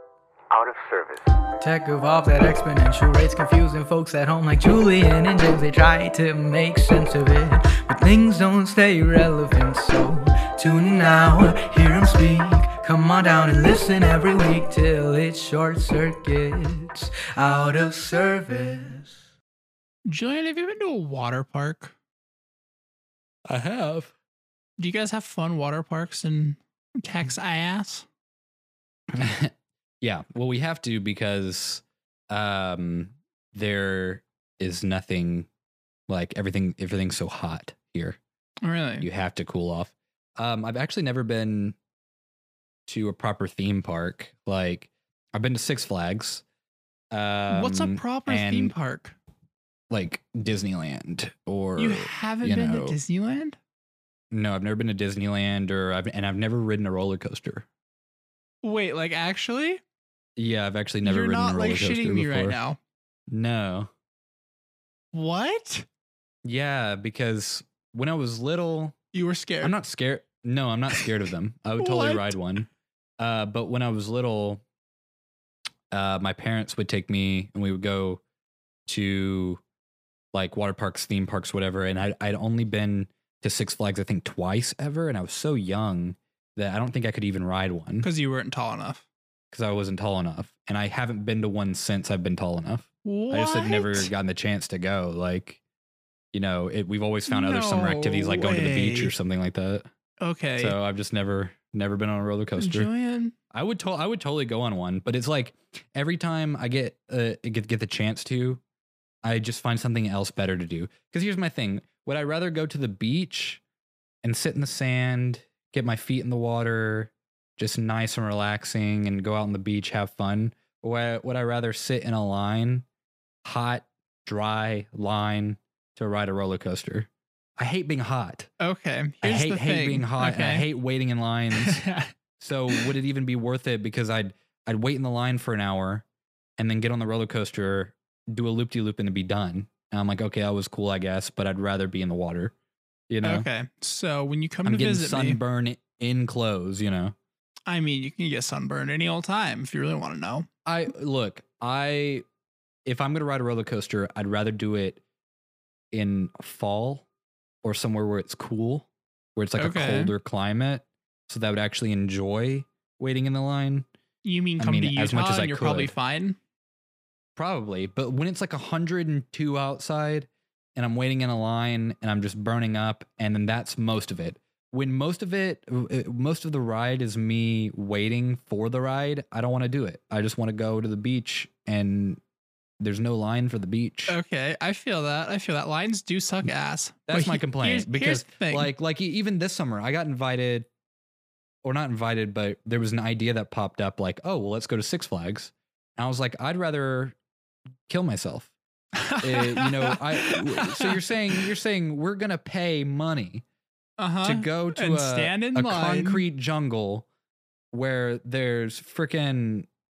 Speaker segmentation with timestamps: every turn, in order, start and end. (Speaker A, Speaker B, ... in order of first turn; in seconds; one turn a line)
Speaker A: 0.5-19.1
Speaker B: 20.1-21.9
Speaker C: 23.5-24.1
Speaker B: 24.8-28.1
Speaker C: 29.1-35.5
Speaker C: 36.1-38.2
Speaker B: 38.6-39.1
Speaker C: 39.0-41.8
Speaker C: 42.9-46.4
Speaker C: 47.1-48.7
Speaker B: 47.5-49.1
Speaker C: 49.9-53.0
Speaker B: 51.8-53.6
Speaker C: 54.3-57.6
Speaker B: 58.6-59.8
Speaker C: 60.4-62.6
Speaker B: 61.0-62.8
Speaker C: 63.3-63.9
Speaker B: 65.1-65.9
Speaker C: 66.4-69.0
Speaker B: 69.1-69.7
Speaker C: 69.6-72.7
Speaker B: 71.8-72.3
Speaker C: 73.2-74.6
Speaker C: 75.9-78.2
Speaker C: 78.9-79.6
Speaker C: 80.3-88.1
Speaker B: 88.0-89.0
Speaker C: 89.5-95.6
Speaker B: 93.0-94.1
Speaker C: 96.3-99.9
Speaker B: 97.3-99.1
Speaker B: 100.2-100.8
Speaker C: 100.6-102.9
Speaker B: 102.6-103.3
Speaker C: 103.5-108.6
Speaker C: 109.2-113.6
Speaker C: 114.2-122.8
Speaker C: 123.4-128.5
Speaker B: 128.6-130.6
Speaker C: 129.2-131.8
Speaker B: 131.5-132.1
Speaker C: 132.4-136.0
Speaker C: 136.6-142.5
Speaker C: 143.1-143.5
Speaker B: 143.2-145.4
Speaker C: 144.6-147.2
Speaker B: 147.7-150.5
Speaker C: 150.6-152.2
Speaker C: 152.8-155.0
Speaker C: 155.9-157.1
Speaker C: 157.6-163.9
Speaker B: 159.6-160.1
Speaker B: 164.2-166.4
Speaker C: 164.6-165.9
Speaker C: 167.3-182.2
Speaker C: 182.8-184.2
Speaker B: 184.1-188.7
Speaker C: 187.1-190.7
Speaker C: 191.6-197.2
Speaker C: 197.9-198.5
Speaker B: 198.9-201.5
Speaker C: 199.2-203.4
Speaker B: 204.0-206.2
Speaker C: 204.2-207.1
Speaker C: 207.7-209.7